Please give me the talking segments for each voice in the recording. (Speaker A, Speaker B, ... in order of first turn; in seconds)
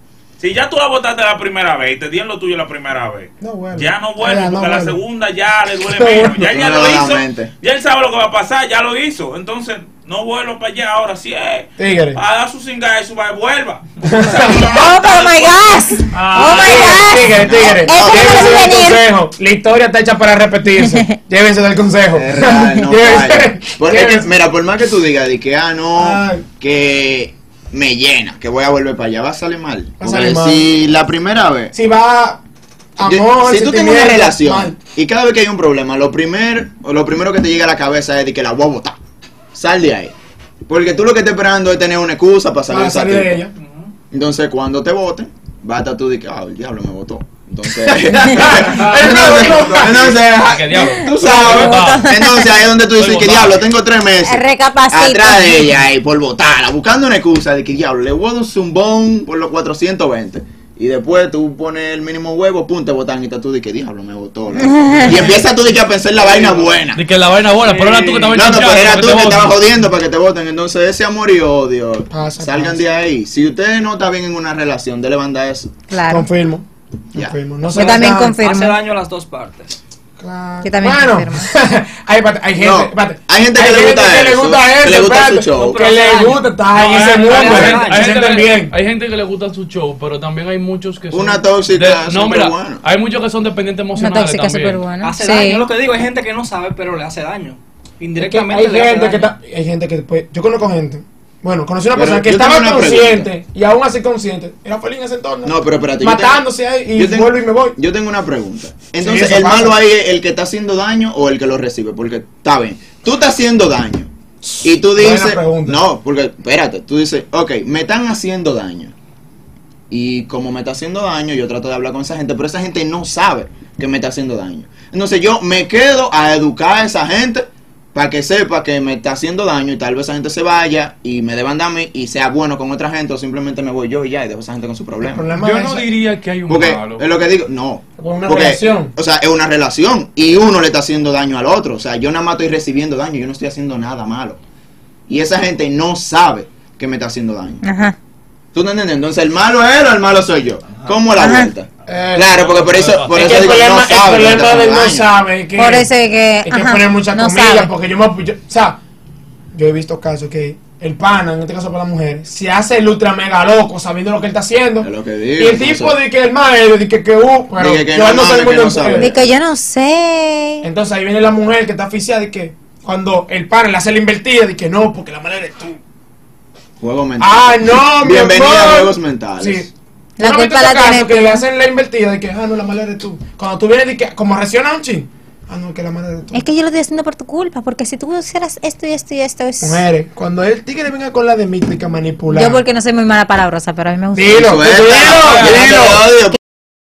Speaker A: 0.6-15.4, 16.1-16.9
Speaker B: 3.4-5.0, 5.8-6.6, 11.8-12.2, 14.1-14.8, 16.4-24.3, 25.9-26.4, 30.0-30.7, 31.7-32.4, 33.0-34.8, 42.7-43.5, 48.2-50.2, 72.1-72.8, 76.1-78.4, 80.2-88.7, 98.2-107.8, 109.0-109.8, 114.9-115.8, 135.0-135.9, 138.0-138.9, 151.9-152.3, 153.1-155.9, 156.4-158.8, 159.5-169.1, 170.6-175.8, 177.2-179.7, 180.2-186.4, 189.6-192.6, 194.1-196.0
Speaker C: 6.5-7.5, 17.1-18.5, 22.1-31.7, 33.0-39.0, 39.5-40.1, 40.7-43.4, 44.1-67.0, 68.2-75.7, 82.6-85.8, 91.1-92.8, 101.9-103.3, 105.4-114.1, 114.6-118.9, 119.9-135.2, 136.5-144.4, 145.1-147.6, 148.5-155.1, 164.8-166.0, 167.6-169.2, 176.8-179.7, 194.4-196.4
Speaker D: 14.6-19.1, 20.8-21.1, 50.7-52.5, 54.2-55.8, 64.6-65.4, 75.9-76.3, 77.6-78.8, 80.6-81.5, 93.9-95.7, 147.6-147.9, 151.1-151.5, 155.5-157.7, 168.9-170.7, 180.2-181.4, 186.3-189.8, 192.3-194.6
Speaker E: 43.6-43.9, 78.4-79.8, 85.6-86.5, 87.0-88.4, 95.0-99.3
Speaker F: 50.4-52.1, 52.9-53.6, 66.9-69.6, 86.7-94.8, 135.4-137.0, 152.3-153.5, 195.0-195.7